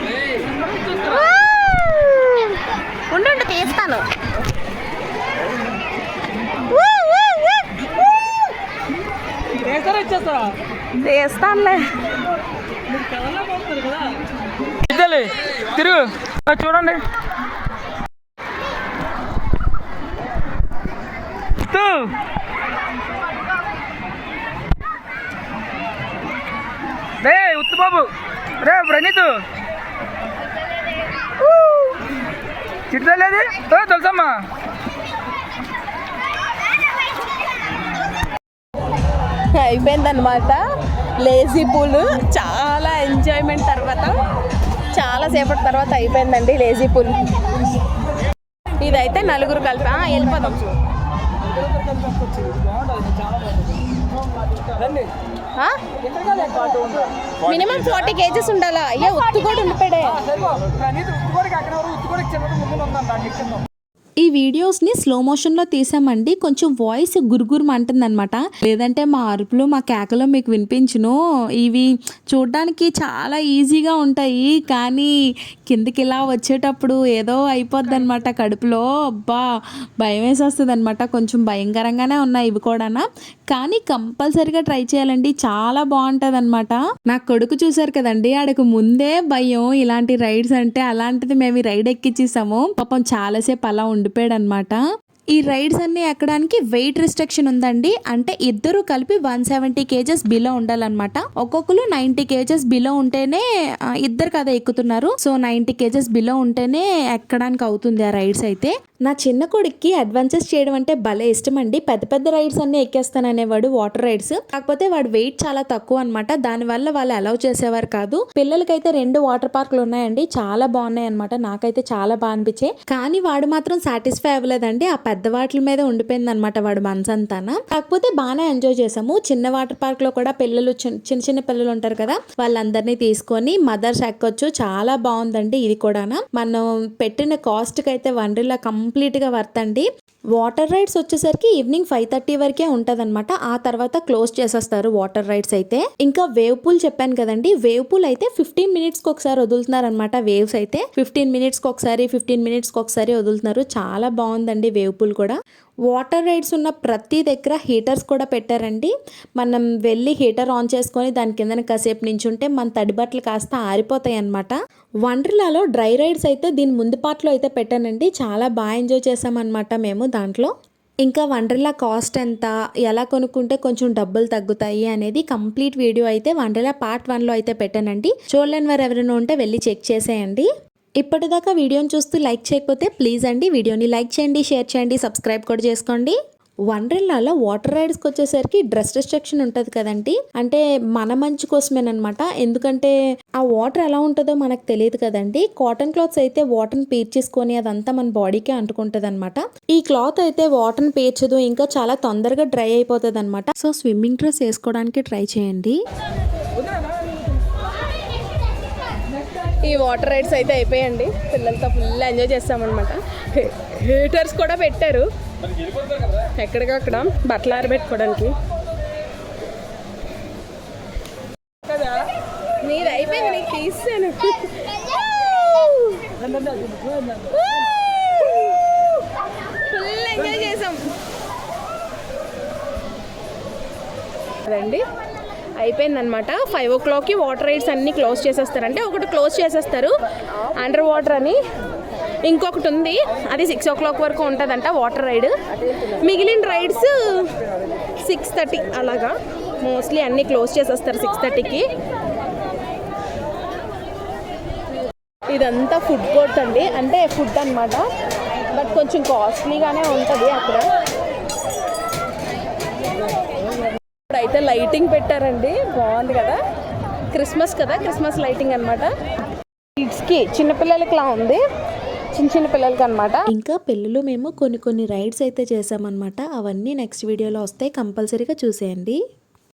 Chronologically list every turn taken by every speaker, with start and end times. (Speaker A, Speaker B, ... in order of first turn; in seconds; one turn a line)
Speaker A: 3.1-4.0
Speaker A: 6.7-7.4
Speaker B: 9.6-10.5
Speaker A: 11.0-11.8
Speaker B: 13.2-14.0
Speaker B: 14.9-17.0
Speaker B: 21.7-22.1
Speaker B: 27.2-29.4
Speaker B: 32.9-34.4
Speaker A: 39.5-40.6
Speaker A: 41.2-44.1
Speaker A: 44.9-47.3
Speaker A: 48.8-50.7
Speaker B: 52.0-53.1
Speaker B: 56.2-57.0
Speaker A: 57.4-60.2
Speaker B: 60.8-63.4
Speaker C: 64.2-75.1
Speaker C: 75.7-79.4
Speaker C: 80.0-94.8
Speaker C: 95.3-103.4
Speaker C: 104.0-155.3
Speaker C: 155.9-170.5
Speaker C: 171.0-180.5
Speaker C: 181.0-186.2
Speaker C: 186.7-205.8
Speaker A: 209.6-215.0
Speaker A: 216.3-218.3
Speaker A: 222.6-224.5
Speaker A: 229.7-230.8
Speaker A: 234.5-234.8
Speaker A: 235.6-239.9
Speaker A: 240.5-241.4
Speaker A: 242.2-247.3
Speaker A: 248.0-251.7
Speaker A: 255.3-257.9
Speaker A: 258.5-260.7
Speaker A: 264.1-266.4
Speaker A: 267.1-268.9
Speaker A: 269.8-271.4
Speaker A: 272.1-273.3
Speaker C: 273.3-279.0